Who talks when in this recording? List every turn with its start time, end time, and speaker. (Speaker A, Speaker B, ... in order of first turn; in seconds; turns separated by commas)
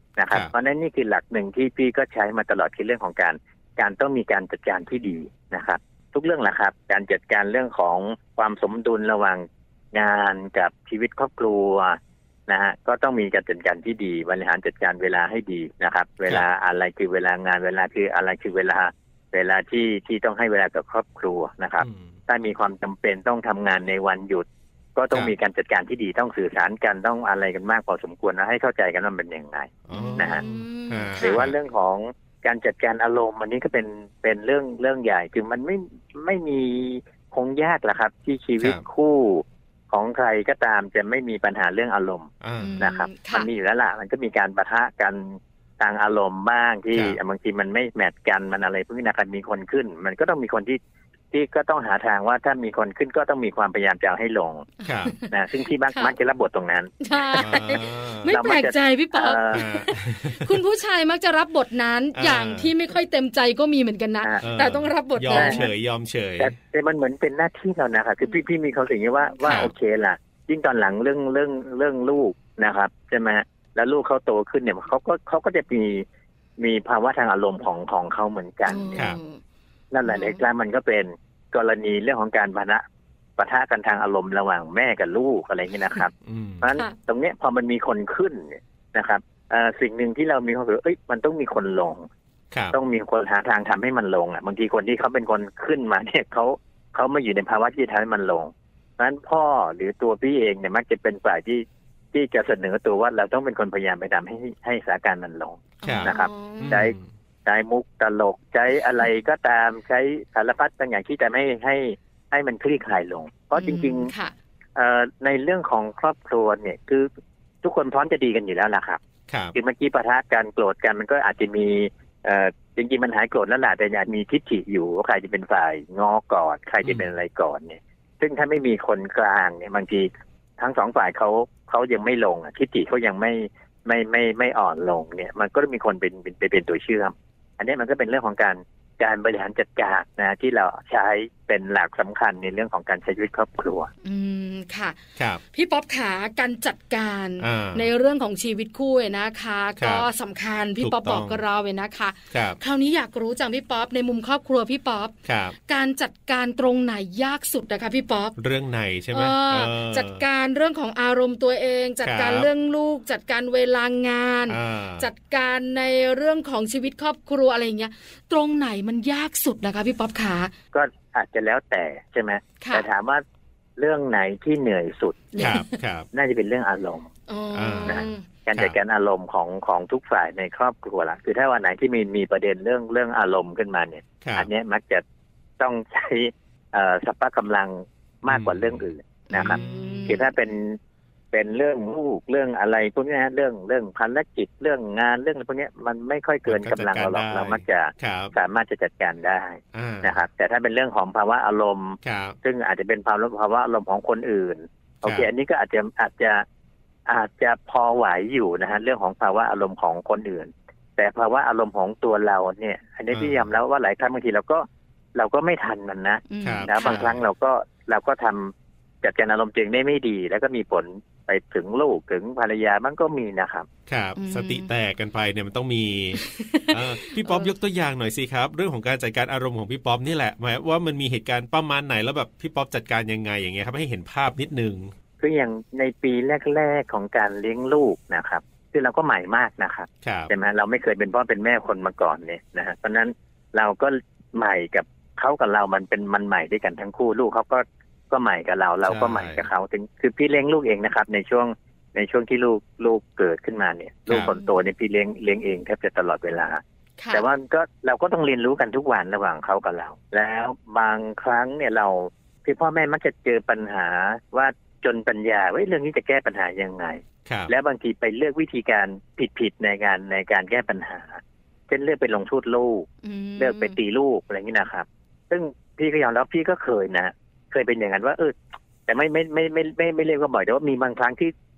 Speaker A: 0.2-24.4, Speaker B: 21.8-22.1, Speaker A: 24.9-30.4, Speaker B: 29.9-31.6, Speaker C: 29.9-31.4, Speaker A: 31.2-50.8, Speaker B: 42.4-42.8, Speaker C: 42.6-43.5, Speaker B: 46.9-47.2, Speaker A: 51.3-54.7, Speaker C: 54.8-55.3, Speaker B: 54.9-55.1, Speaker A: 55.3-59.6, Speaker C: 57.0-65.6, Speaker B: 57.4-58.3, Speaker B: 59.5-60.5, Speaker B: 62.1-62.7, Speaker B: 64.4-66.5, Speaker A: 65.3-65.7, Speaker A: 66.4-76.0, Speaker B: 69.5-69.7, Speaker A: 76.6-79.0, Speaker C: 78.7-79.4, Speaker A: 79.9-82.8, Speaker C: 80.0-80.4, Speaker A: 83.4-86.1, Speaker B: 86.2-86.6, Speaker A: 86.6-92.1, Speaker B: 92.5-92.8, Speaker A: 92.7-114.1, Speaker C: 105.8-106.8, Speaker B: 105.8-107.0, Speaker C: 113.5-114.3, Speaker A: 114.8-117.1, Speaker A: 117.6-119.0, Speaker B: 119.3-119.5, Speaker A: 119.5-143.9, Speaker C: 144.0-145.0, Speaker B: 145.2-145.4, Speaker C: 145.5-155.1, Speaker B: 147.4-147.9, Speaker B: 149.8-150.1, Speaker B: 150.8-151.4, Speaker B: 152.3-152.6, Speaker B: 155.2-155.5, Speaker C: 155.7-158.3, Speaker B: 158.4-160.2, Speaker C: 159.1-170.5, Speaker B: 162.0-162.5, Speaker B: 164.5-165.1, Speaker A: 170.7-173.2, Speaker C: 172.6-172.9, Speaker A: 173.8-175.5, Speaker C: 175.3-175.8, Speaker B: 175.4-176.1, Speaker A: 176.1-177.1, Speaker C: 177.3-178.2, Speaker B: 177.5-178.8, Speaker A: 177.8-185.0, Speaker B: 184.2-184.5, Speaker A: 185.6-190.8, Speaker B: 188.3-190.2, Speaker C: 189.3-190.3, Speaker A: 191.3-206.4, Speaker B: 196.4-198.3, Speaker B: 199.7-200.2, Speaker B: 202.0-202.4, Speaker B: 205.0-205.3, Speaker A: 207.1-223.7, Speaker B: 213.1-213.5, Speaker C: 216.3-217.0, Speaker B: 216.4-217.2, Speaker B: 223.9-234.9, Speaker C: 224.2-224.7, Speaker C: 226.2-227.5, Speaker A: 235.2-256.6, Speaker B: 240.0-240.3, Speaker B: 248.8-249.4, Speaker B: 254.1-254.3, Speaker C: 257.0-257.2, Speaker A: 257.1-272.9, Speaker B: 267.2-267.5, Speaker C: 273.0-273.8, Speaker A: 273.4-278.3, Speaker A: 278.9-281.3